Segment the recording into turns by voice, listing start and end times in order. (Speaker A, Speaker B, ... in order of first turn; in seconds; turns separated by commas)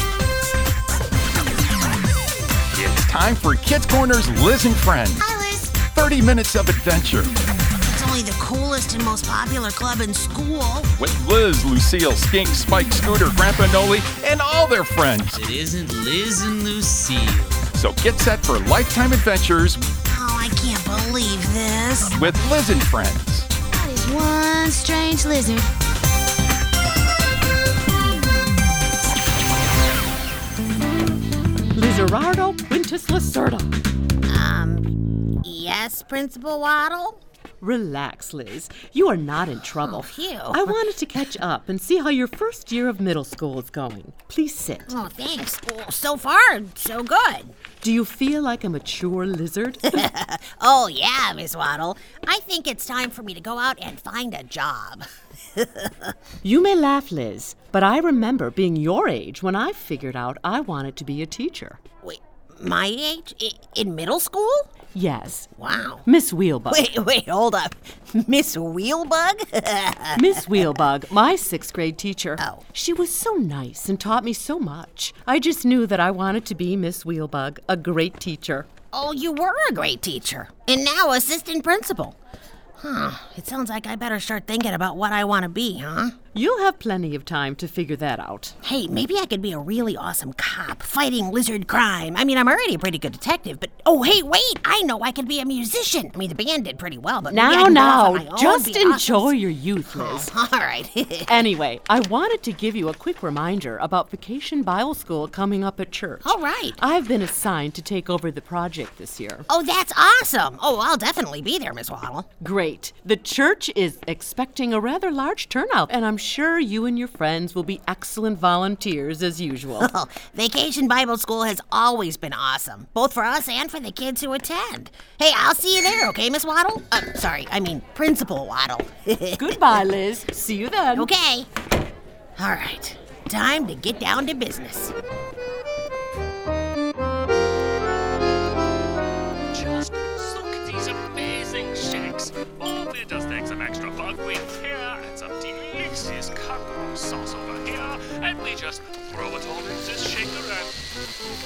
Speaker A: 2.7-7.3, Speaker B: 5.2-5.7, Speaker B: 7.8-10.9, Speaker A: 11.0-15.4, Speaker C: 15.3-17.6, Speaker A: 17.7-19.8, Speaker B: 20.1-22.2, Speaker A: 22.1-23.5, Speaker D: 23.7-25.7, Speaker E: 31.7-33.7, Speaker B: 34.3-37.2, Speaker E: 37.6-44.9, Speaker B: 39.8-40.8, Speaker B: 44.9-47.5, Speaker E: 47.8-50.0, Speaker B: 49.9-55.0, Speaker B: 55.6-56.1, Speaker E: 56.4-61.8, Speaker B: 62.0-64.7, Speaker E: 64.9-65.5, Speaker B: 65.6-66.0, Speaker E: 66.0-66.9, Speaker B: 66.7-70.6, Speaker E: 70.2-78.7, Speaker B: 78.9-82.2, Speaker B: 82.8-86.2, Speaker E: 86.3-88.6, Speaker B: 88.6-99.4, Speaker E: 97.3-100.3, Speaker B: 99.9-101.3, Speaker E: 101.3-109.5, Speaker B: 106.2-106.8, Speaker B: 109.5-112.3, Speaker E: 112.4-119.9, Speaker B: 119.8-129.8, Speaker E: 129.4-131.1, Speaker B: 130.9-131.5, Speaker B: 132.4-134.9, Speaker F: 139.5-150.8